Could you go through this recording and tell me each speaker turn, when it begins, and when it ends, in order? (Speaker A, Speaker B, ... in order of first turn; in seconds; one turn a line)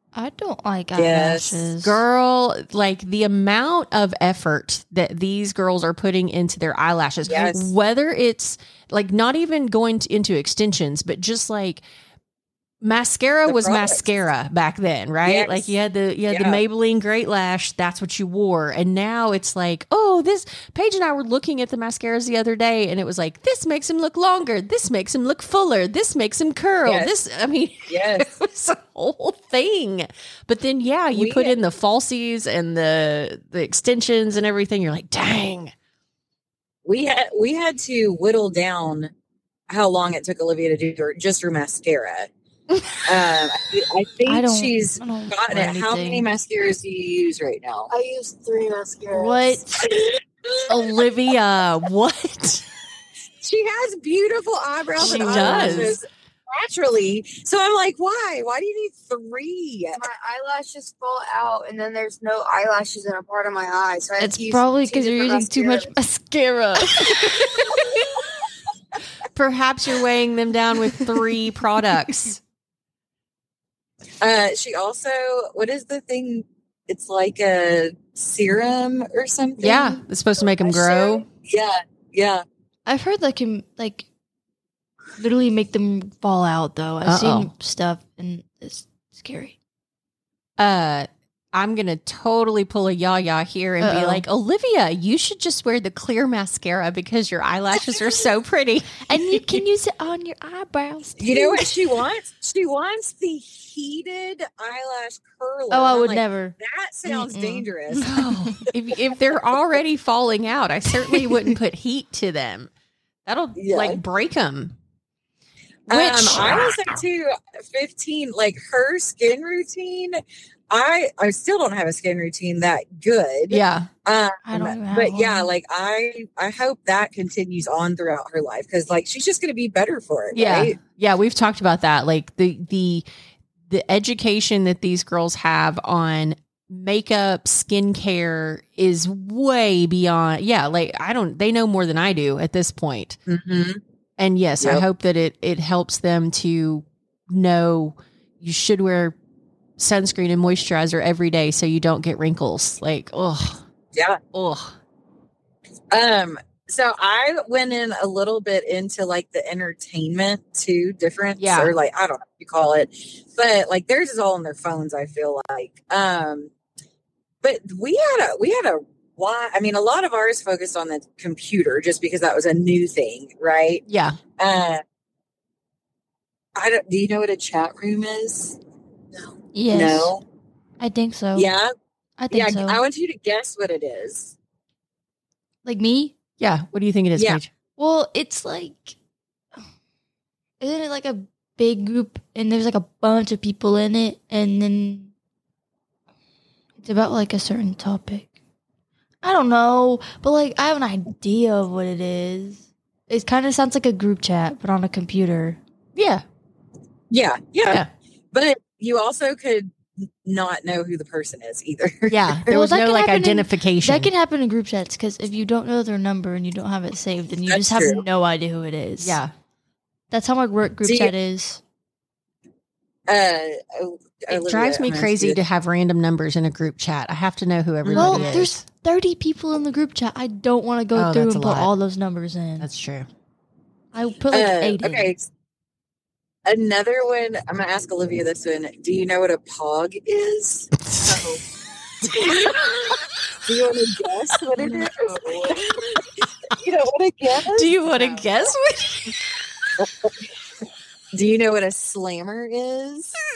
Speaker A: 0.1-2.0
Speaker B: 0.9-1.7
Speaker C: 1.8-11.8
Speaker B: 7.2-7.7
Speaker C: 12.8-35.7
Speaker B: 13.4-14.0
Speaker B: 15.2-15.7
Speaker B: 16.3-16.6
Speaker B: 26.8-27.1
Speaker B: 27.9-28.4
Speaker B: 31.1-31.6
Speaker B: 36.8-39.1
Speaker B: 39.7-42.3
Speaker B: 43.0-47.9
Speaker A: 44.2-46.3
Speaker D: 47.9-49.6
Speaker A: 49.1-49.8
Speaker C: 50.7-52.6
Speaker B: 53.4-60.0
Speaker C: 55.0-56.0
Speaker A: 55.0-56.0
Speaker D: 59.9-65.9
Speaker A: 64.2-67.6
Speaker C: 69.3-72.4
Speaker B: 74.2-80.0
Speaker C: 79.6-81.2
Speaker B: 80.6-82.4
Speaker A: 82.8-84.0
Speaker A: 85.2-89.5
Speaker C: 87.0-87.5
Speaker C: 90.6-99.6
Speaker A: 93.8-94.2
Speaker A: 99.0-101.8
Speaker B: 101.2-108.1
Speaker A: 105.7-108.6
Speaker C: 108.0-112.7
Speaker C: 113.2-114.7
Speaker B: 113.6-114.0
Speaker C: 115.9-116.9
Speaker B: 115.9-120.2
Speaker B: 120.7-130.8
Speaker C: 123.5-123.9
Speaker A: 124.5-125.5
Speaker C: 130.3-133.0
Speaker C: 133.7-143.2
Speaker B: 143.3-143.8
Speaker C: 144.2-149.2
Speaker C: 149.8-153.6
Speaker B: 153.9-154.2
Speaker C: 154.3-154.7
Speaker B: 155.9-166.5
Speaker C: 161.4-161.7
Speaker B: 167.4-173.8
Speaker C: 173.9-174.2
Speaker B: 174.4-174.8
Speaker B: 176.6-178.6
Speaker A: 179.5-180.1
Speaker B: 179.7-180.2
Speaker A: 180.8-181.5
Speaker B: 181.3-181.7
Speaker A: 182.2-182.8
Speaker B: 182.3-184.3
Speaker A: 185.6-186.1
Speaker C: 186.4-187.5
Speaker B: 187.2-187.4
Speaker A: 187.8-188.9
Speaker A: 190.6-195.1
Speaker A: 196.8-198.3
Speaker A: 199.2-205.6
Speaker C: 205.9-206.2
Speaker B: 207.1-212.5
Speaker C: 212.1-214.1
Speaker A: 212.5-219.2
Speaker B: 217.5-218.0
Speaker C: 219.0-219.3
Speaker A: 220.1-221.6
Speaker B: 220.8-221.1
Speaker B: 223.1-225.4
Speaker C: 224.3-228.6
Speaker B: 227.8-228.4
Speaker A: 227.9-232.7
Speaker C: 230.9-231.7
Speaker C: 232.6-233.1
Speaker A: 233.9-235.1
Speaker B: 234.3-235.3
Speaker B: 236.4-241.4
Speaker C: 240.9-241.2
Speaker B: 242.0-248.3
Speaker D: 244.6-245.5
Speaker C: 247.4-249.2
Speaker B: 249.8-250.1
Speaker B: 251.1-253.1